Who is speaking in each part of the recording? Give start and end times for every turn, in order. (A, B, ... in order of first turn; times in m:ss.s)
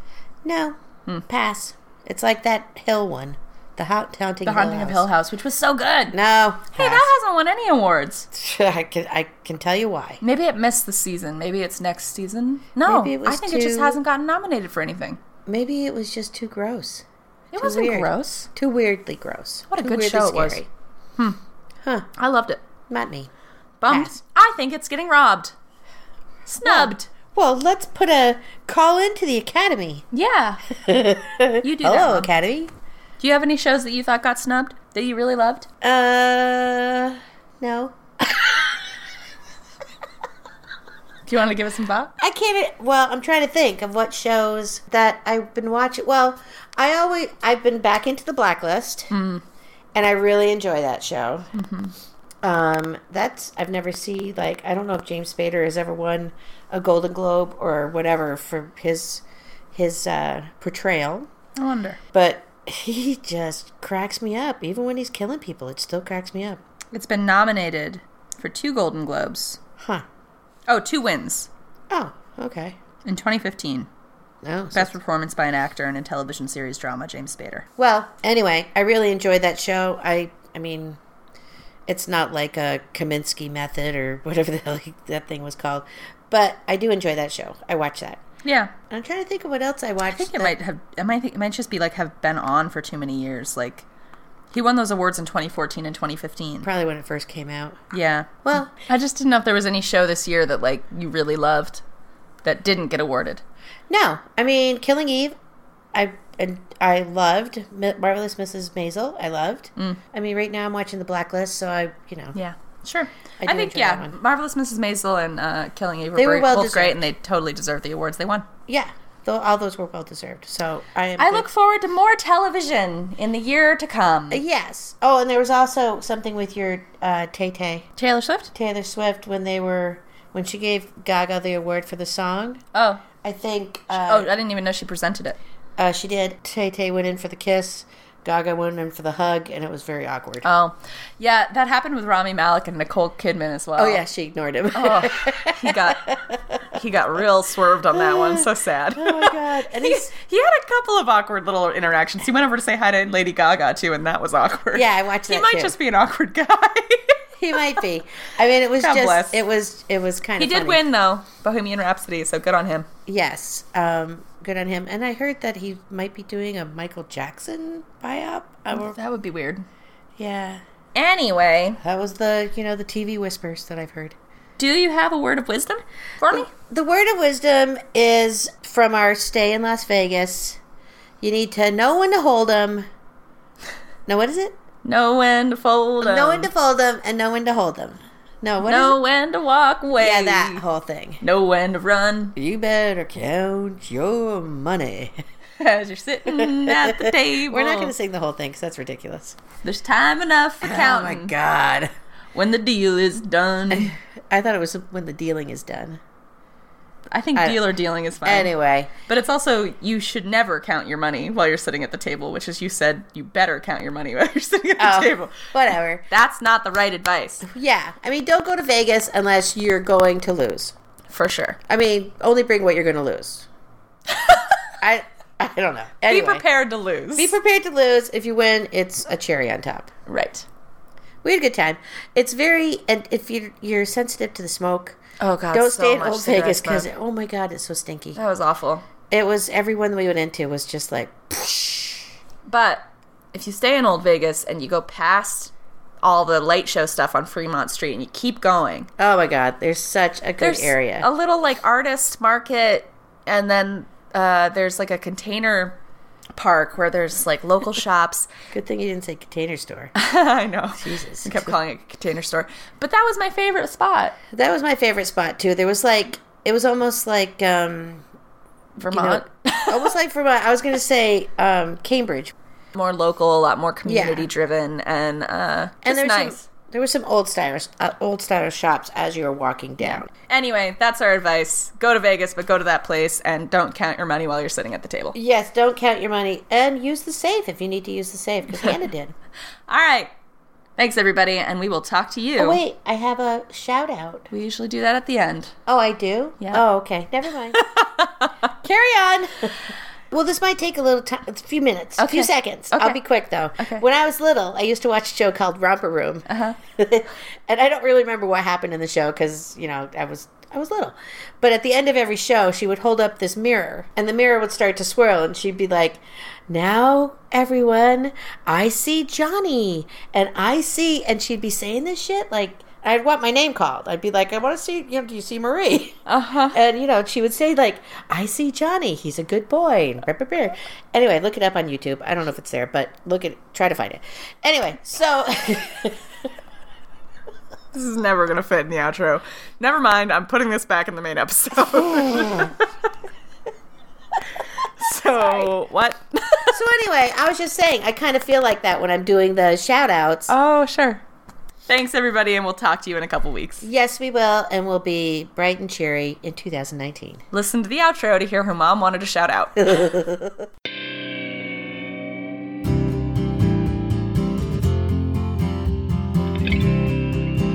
0:00.4-0:05.0 A
0:04.4-0:06.2 B
0:06.1-0:07.1 A
0:06.7-0:08.3 B
0:08.3-0:10.2 A
0:10.2-0:15.2 B
0:12.8-0:14.0 A
0:15.4-0:17.0 A
0:17.5-0:18.5 B
0:17.6-0:20.7 A
0:19.7-0:20.6 B
0:22.2-0:22.6 B
0:22.9-0:23.3 A
0:23.8-0:25.5 B
0:23.9-0:24.2 A
0:26.4-0:27.1 B
0:26.6-0:30.0 A
0:30.1-0:30.8 B
0:30.7-0:32.7 A
0:31.6-0:32.3 B
0:33.2-0:35.7 B
0:35.8-0:38.9 A
0:41.2-0:42.1 B
0:42.2-0:49.1 A
0:49.1-0:49.4 B
0:49.9-0:51.5 A
0:51.5-0:51.9 B
0:52.4-1:01.3 A
1:01.6-1:02.0 B
1:02.1-1:06.6 A
1:06.9-1:09.6 B
1:09.8-1:10.0 A
1:10.7-1:11.5 B
1:11.9-1:12.8 A
1:13.0-1:13.9 B
1:14.4-1:15.0 A
1:14.7-1:17.7 B
1:17.8-1:21.0 A
1:21.9-1:28.2 A
1:28.4-1:28.7 B
1:28.9-1:30.6 A
1:30.1-1:33.8 B
1:34.5-1:36.7 B
1:36.6-1:37.9 A
1:37.9-1:41.8 B
1:38.4-1:38.7 A
1:42.4-1:43.4 B
1:43.9-1:45.3 A
1:45.9-1:52.4 A
1:52.3-1:58.5 B
1:53.4-1:54.2 A
1:56.2-1:57.0 A
1:58.7-2:01.5 A
2:01.2-2:04.4 B
2:04.3-2:07.8 A
2:08.0-2:08.5 B
2:08.5-2:12.6 A
2:12.7-2:13.0 B
2:13.2-2:14.3 A
2:13.9-2:15.4 B
2:15.8-2:20.4 A
2:20.4-2:24.0 B
2:23.8-2:26.6 A
2:24.7-2:37.8 B
2:27.9-2:30.1 A
2:34.7-2:35.8 A
2:37.4-2:40.8 A
2:38.8-2:39.4 B
2:40.4-2:42.9 B
2:43.0-2:49.0 A
2:48.7-2:49.6 B
2:50.2-2:50.6 A
2:50.9-2:51.8 B
2:51.8-2:54.1 A
2:54.6-2:56.5 B
2:56.3-3:00.6 A
3:01.2-3:02.8 A
3:04.1-3:04.6 A
3:04.8-3:06.5 B
3:06.0-3:09.0 A
3:08.6-3:10.6 B
3:10.0-3:11.2 A
3:11.2-3:12.4 B
3:12.4-3:15.2 A
3:15.6-3:17.9 B
3:16.2-3:19.4 A
3:19.6-3:21.3 B
3:20.6-3:21.9 A
3:22.3-3:23.9 B
3:23.7-3:26.0 A
3:27.1-3:28.5 B
3:27.3-3:27.6 A
3:28.2-3:28.9 A
3:29.1-3:35.5 B
3:34.8-3:36.1 A
3:36.1-3:37.4 B
3:37.4-3:40.7 A
3:41.1-3:41.6 B
3:41.7-3:43.5 A
3:44.1-3:44.5 B
3:44.8-3:46.4 A
3:46.1-3:47.3 B
3:47.2-3:49.9 A
3:50.1-3:50.4 B
3:51.2-3:55.0 A
3:55.2-3:56.9 B
3:55.5-3:58.2 A
3:58.1-3:58.8 B
3:59.1-4:02.1 A
4:02.4-4:08.9 B
4:09.0-4:11.0 A
4:10.4-4:15.8 B
4:16.4-4:18.3 B
4:18.5-4:19.9 A
4:19.9-4:24.2 B
4:20.8-4:21.5 A
4:24.3-4:28.0 A
4:28.8-4:29.9 B
4:28.9-4:32.3 A
4:32.7-4:36.4 B
4:33.8-4:34.3 A
4:35.8-4:40.1 A
4:39.8-4:45.1 B
4:45.1-4:49.1 A
4:49.7-4:50.1 B
4:50.8-4:52.6 B
4:52.4-4:54.3 A
4:54.3-4:55.5 B
4:55.6-4:57.6 A
4:57.5-4:58.5 B
4:58.6-5:26.0 A
5:02.0-5:03.0 B
5:03.6-5:03.8 B
5:06.3-5:06.6 B
5:26.0-5:26.6 B
5:26.5-5:36.0 A
5:37.7-5:42.6 B
5:44.6-5:46.6 B
5:45.1-5:45.5 A
5:46.5-5:50.3 A
5:50.3-5:51.0 B
5:51.7-5:53.7 B
5:53.6-5:57.2 A
5:57.3-5:59.9 B
5:59.6-6:00.4 A